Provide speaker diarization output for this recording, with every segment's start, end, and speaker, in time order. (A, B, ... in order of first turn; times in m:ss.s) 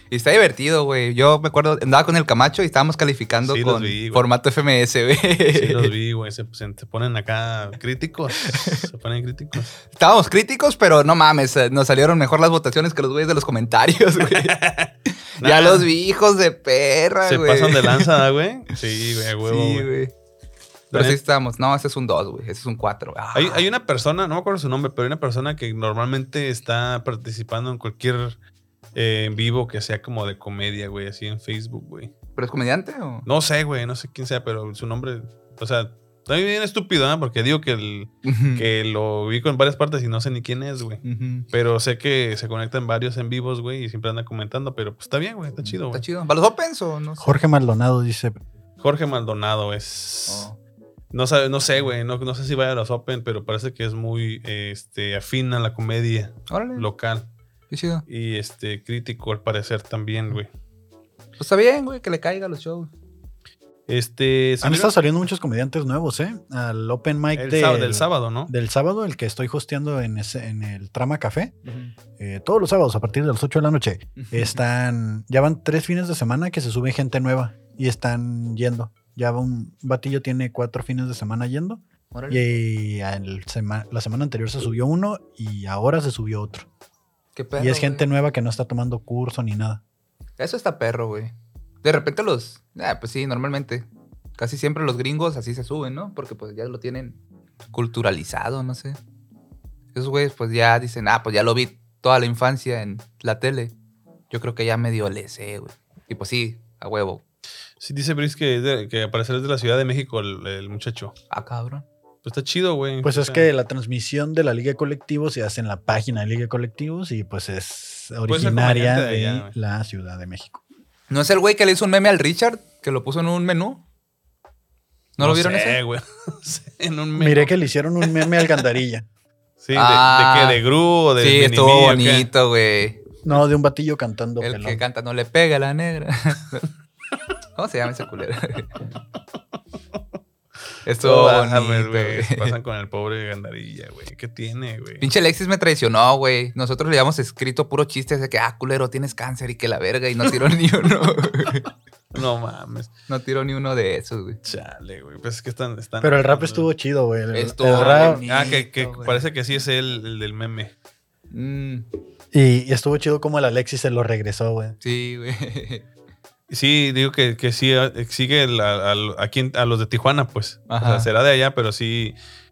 0:00.1-0:05.9 A
0:03.4-0:04.2 B
0:05.5-0:09.7 B
0:08.4-0:08.9 A
0:09.9-0:14.6 A
0:14.2-0:15.9 B
0:15.4-0:18.2 A
0:17.3-0:19.9 B
0:19.4-0:20.1 A
0:20.9-0:21.2 B
0:20.9-0:23.6 A
0:23.3-0:28.4 B
0:28.9-0:32.1 B
0:32.4-0:33.3 A
0:33.3-0:46.0 B
0:38.2-0:38.7 A
0:41.0-0:41.5 A
0:45.6-0:47.4 A
0:47.2-0:48.4 C
0:48.8-0:50.5 B
0:50.3-0:50.6 A
0:51.1-0:57.3 B
0:56.5-0:56.9 A
0:57.7-0:58.0 A
0:58.1-1:00.5 B
1:01.4-1:02.9 A
1:03.9-1:04.9 B
1:04.6-1:11.6 C
1:07.4-1:08.5 B
1:11.6-1:11.9 A
1:12.2-1:26.7 C
1:14.2-1:14.6 A
1:22.1-1:22.4 A
1:27.4-1:28.0 A
1:27.6-1:29.8 C
1:30.4-1:33.9 A
1:34.4-1:37.2 A
1:37.7-1:39.0 A
1:39.9-1:43.7 A
1:44.3-1:47.2 A
1:47.8-1:51.1 B
1:51.3-1:51.8 A
1:52.2-1:53.5 B
1:53.0-2:00.6 C
1:58.3-1:59.5 B
2:01.1-2:03.8 A
2:05.2-2:05.8 A
2:05.2-2:07.5 B
2:07.2-2:09.0 C
2:09.6-2:12.3 B
2:09.7-2:10.6 A
2:11.2-2:13.0 A
2:13.2-2:14.8 C
2:14.4-2:16.7 A
2:17.6-2:18.8 A
2:20.8-2:22.5 A
2:21.0-2:25.1 B
2:25.0-2:31.7 A
2:32.1-2:32.9 B
2:33.1-2:34.4 A
2:34.4-2:36.7 B
2:36.0-2:38.2 C
2:37.3-2:39.2 A
2:37.7-2:40.7 B
2:41.3-2:41.9 A
2:42.3-2:44.8 C
2:44.8-2:45.8 A
2:46.5-2:52.2 B
2:50.7-2:51.1 A